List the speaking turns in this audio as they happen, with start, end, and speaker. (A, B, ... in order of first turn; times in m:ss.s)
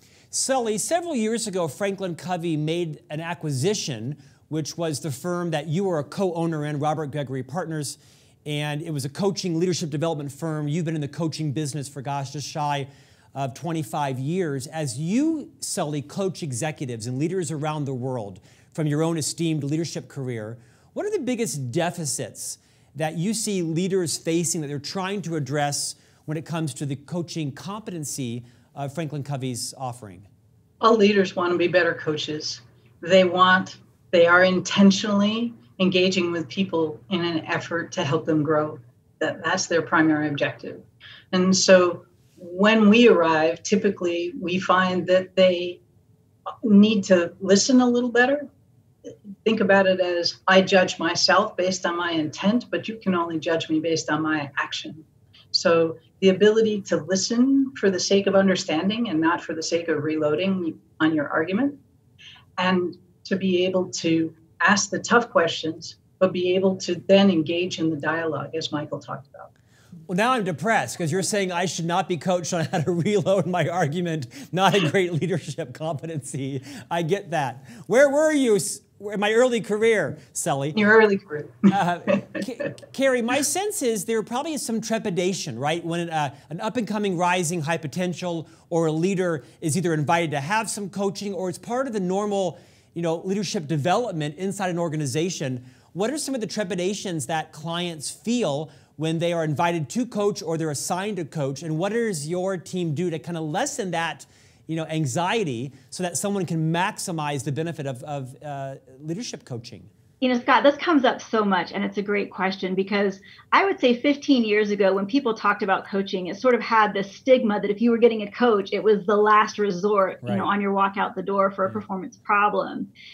0:00.3-0:30.3 A
0:30.8-0:45.8 B
0:46.6-0:48.5 B
0:49.4-1:01.8 B
1:02.6-1:09.5 B
1:10.1-1:20.8 A
1:20.7-1:21.7 B
1:21.7-1:49.9 A
1:50.2-2:02.9 C
2:00.2-2:00.5 A